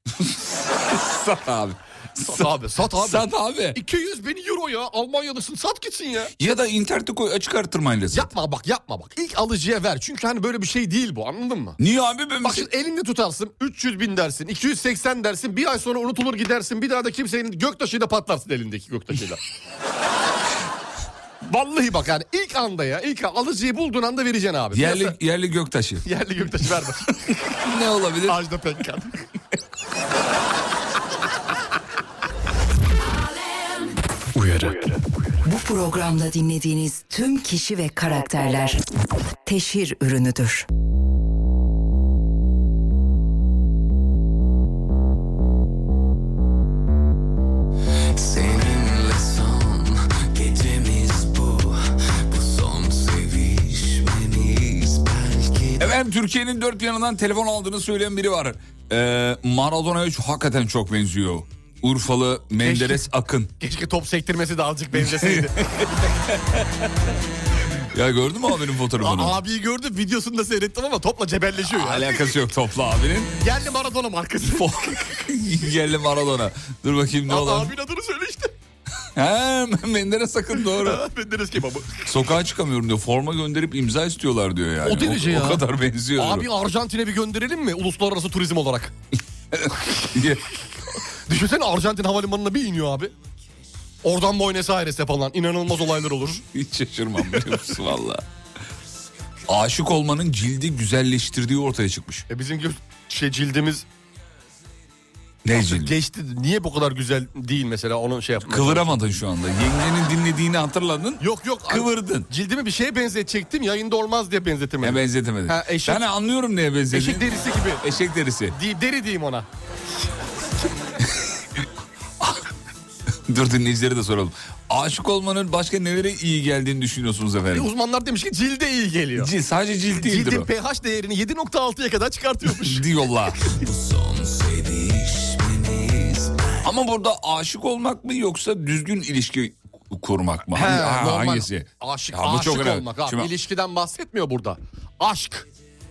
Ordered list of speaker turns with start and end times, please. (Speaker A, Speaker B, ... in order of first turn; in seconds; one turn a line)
Speaker A: 0.3-3.8
Speaker B: 2.2-6.3
Speaker A: 6.4-8.3
Speaker B: 8.1-11.8
Speaker A: 11.8-12.7
Speaker B: 12.4-19.4
Speaker B: 21.4-25.1
Speaker A: 24.7-26.1
Speaker B: 26.0-27.1
Speaker A: 27.5-28.4
Speaker B: 28.2-29.1
Speaker B: 34.4-34.8
Speaker C: 35.4-38.8
Speaker C: 39.4-40.7
Speaker D: 48.2-51.7
Speaker D: 52.3-55.6
Speaker A: 55.8-63.5
Speaker B: 62.6-63.0
Speaker B: 63.6-65.6
Speaker A: 65.0-65.9
Speaker A: 67.9-69.4
Speaker B: 69.0-72.3
Speaker A: 71.7-73.3
Speaker B: 73.4-75.1
Speaker A: 74.4-77.7
Speaker B: 77.3-78.5
Speaker A: 79.2-81.0
Speaker B: 80.6-82.0
Speaker A: 82.0-86.5
Speaker B: 84.8-85.6
Speaker B: 86.2-88.9
Speaker A: 89.5-90.4
Speaker B: 91.3-93.1
Speaker B: 94.0-96.4
Speaker A: 96.5-98.2
Speaker A: 99.5-102.2
Speaker B: 102.3-103.8
Speaker A: 105.4-105.9
Speaker B: 105.5-108.9
Speaker A: 108.4-112.3
Speaker B: 111.2-116.0
Speaker A: 114.8-118.6
Speaker B: 116.9-117.8
Speaker B: 118.5-119.5
Speaker A: 122.2-122.5
Speaker A: 123.3-127.7
Speaker B: 127.5-129.3
Speaker A: 129.2-130.5
Speaker B: 129.9-132.8
Speaker A: 132.6-133.6
Speaker D: 133.8-136.3
Speaker A: 136.6-143.3
Speaker B: 140.5-145.5